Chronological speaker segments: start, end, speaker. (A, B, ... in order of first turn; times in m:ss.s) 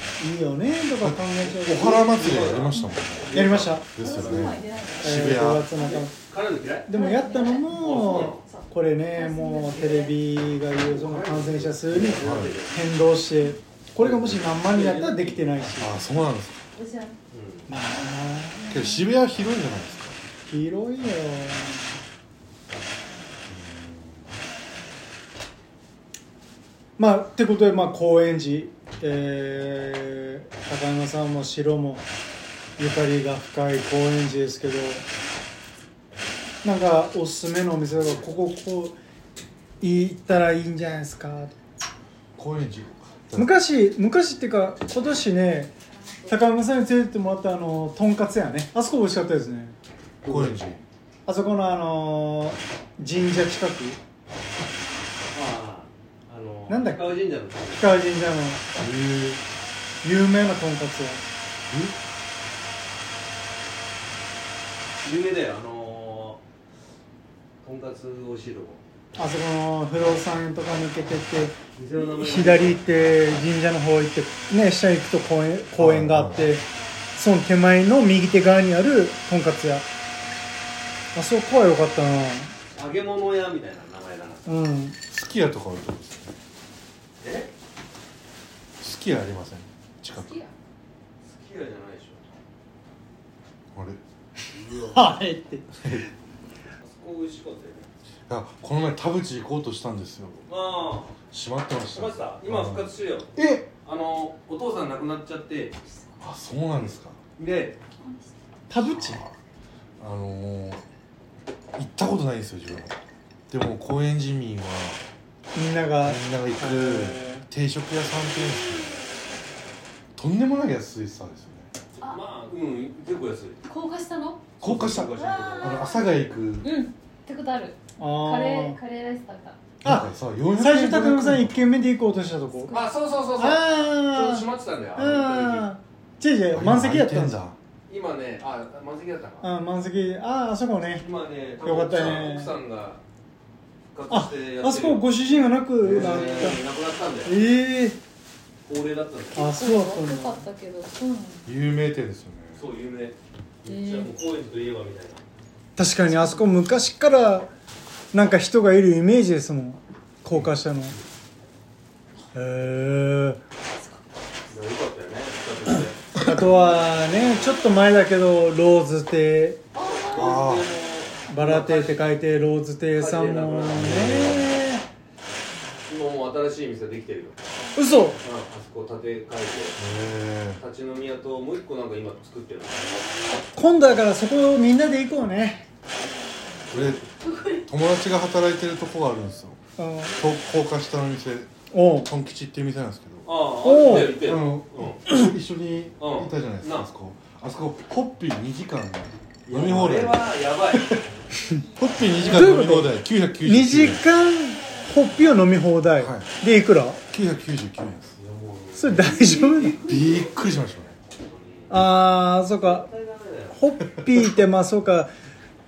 0:00.2-0:02.1 A
0:01.0-0:05.7 B
0:01.4-0:03.8 C
0:03.3-0:04.4 A
0:04.0-0:06.1 D
0:05.0-0:06.1 A
0:05.9-0:06.9 C
0:06.9-0:16.0 A
0:06.9-0:10.2 D
0:07.7-0:08.4 C
0:10.8-0:12.9 C
0:12.2-0:12.6 B
0:14.0-0:15.7 C
0:15.8-0:16.6 B
0:16.7-0:17.2 D
0:17.3-0:17.7 C
0:17.7-0:18.7 A
0:18.6-0:19.1 D
0:18.7-0:20.2 B
0:20.5-0:22.0 A
0:23.5-0:24.3 B
0:27.0-0:32.0 A
0:32.8-0:35.1 A
0:36.6-0:39.0 A
0:39.8-0:41.5 A
0:42.4-0:43.5 B
0:43.4-0:45.7 A
0:45.9-0:46.4 D
0:46.3-0:49.8 A
0:50.2-0:50.6 C
0:50.2-0:50.8 B
0:51.3-0:54.0 A
0:55.3-0:58.0 C
0:56.7-0:57.2 A
0:57.7-0:58.6 A
0:58.8-0:59.4 B
1:00.0-1:01.2 A
1:01.7-1:02.0 B
1:05.0-1:06.4 C
1:07.6-1:08.8 C
1:09.2-1:19.9 A
1:11.8-1:13.2 C
1:15.8-1:16.6 B
1:21.1-1:22.5 A
1:22.7-1:24.5 C
1:24.5-1:25.0 A
1:25.1-1:26.4 B
1:27.2-1:27.5 C
1:28.8-1:30.4 B
1:30.1-1:30.5 D
1:31.2-1:32.2 C
1:33.7-1:34.0 B
1:34.5-1:35.0 C
1:34.8-1:36.0 A
1:35.8-1:36.1 B
1:36.8-1:37.9 C
1:38.3-1:40.4 B
1:40.5-1:41.2 C
1:41.3-1:42.9 B
1:41.9-1:43.3 C
1:43.4-1:43.7 A
1:43.8-1:45.8 C
1:45.9-1:46.2 D
1:46.2-1:47.2 B
1:46.8-1:47.8 C
1:48.0-1:48.3 D
1:48.7-1:49.2 A
1:48.8-1:49.4 B
1:50.0-1:50.8 B
1:51.8-1:53.0 B
1:53.5-1:55.0 B
1:55.5-1:57.5 A
1:56.0-1:59.0 B
2:00.2-2:01.7 B
2:02.0-2:03.6 C
2:03.6-2:04.5 D
2:04.6-2:05.9 C
2:04.6-2:06.7 B
2:05.2-2:09.6 D
2:08.0-2:08.8 A
2:09.8-2:12.8 A
2:09.8-2:11.6 B
2:12.6-2:12.9 D
2:12.7-2:15.7 C
2:13.4-2:17.4 A
2:16.5-2:17.6 B
2:17.9-2:19.5 C
2:19.4-2:21.0 A
2:20.9-2:23.0 C
2:21.6-2:22.6 A
2:23.9-2:25.0 C
2:24.1-2:26.6 A
2:25.8-2:27.4 C
2:25.9-2:26.4 B
2:27.2-2:28.0 A
2:28.6-2:29.6 C
2:29.3-2:30.5 A
2:29.5-2:31.5 D
2:31.4-2:32.6 B
2:32.6-2:35.2 C
2:33.6-2:34.1 D
2:35.8-2:37.5 A
2:38.1-2:41.0 A
2:42.3-2:43.4 A
2:44.5-2:46.1 C
2:46.2-2:49.6 A
2:49.8-2:50.4 D
2:49.9-2:52.0 C
2:50.1-2:50.7 B
2:51.3-2:54.8 A
2:53.0-2:54.6 C
2:53.7-2:54.6 B
2:55.8-2:57.4 C
2:57.8-2:58.2 A
2:58.2-2:59.8 C
2:59.8-3:00.6 B
3:00.6-3:03.0 C
3:03.6-3:05.6 A
3:06.7-3:07.1 C
3:06.7-3:07.0 B
3:07.3-3:07.6 D
3:07.6-3:09.6 B
3:09.8-3:10.2 A
3:10.2-3:13.3 B
3:11.7-3:12.1 A
3:13.2-3:15.0 C
3:13.6-3:14.3 A
3:13.9-3:21.0 B
3:16.0-3:16.9 C
3:19.5-3:21.0 C
3:21.7-3:24.1 B
3:22.2-3:27.0 A
3:26.0-3:26.3 B
3:27.1-3:28.2 B
3:28.2-3:31.8 C
3:28.8-3:29.8 A
3:29.8-3:30.9 B
3:31.7-3:32.9 A
3:32.6-3:33.6 C
3:33.5-3:35.1 A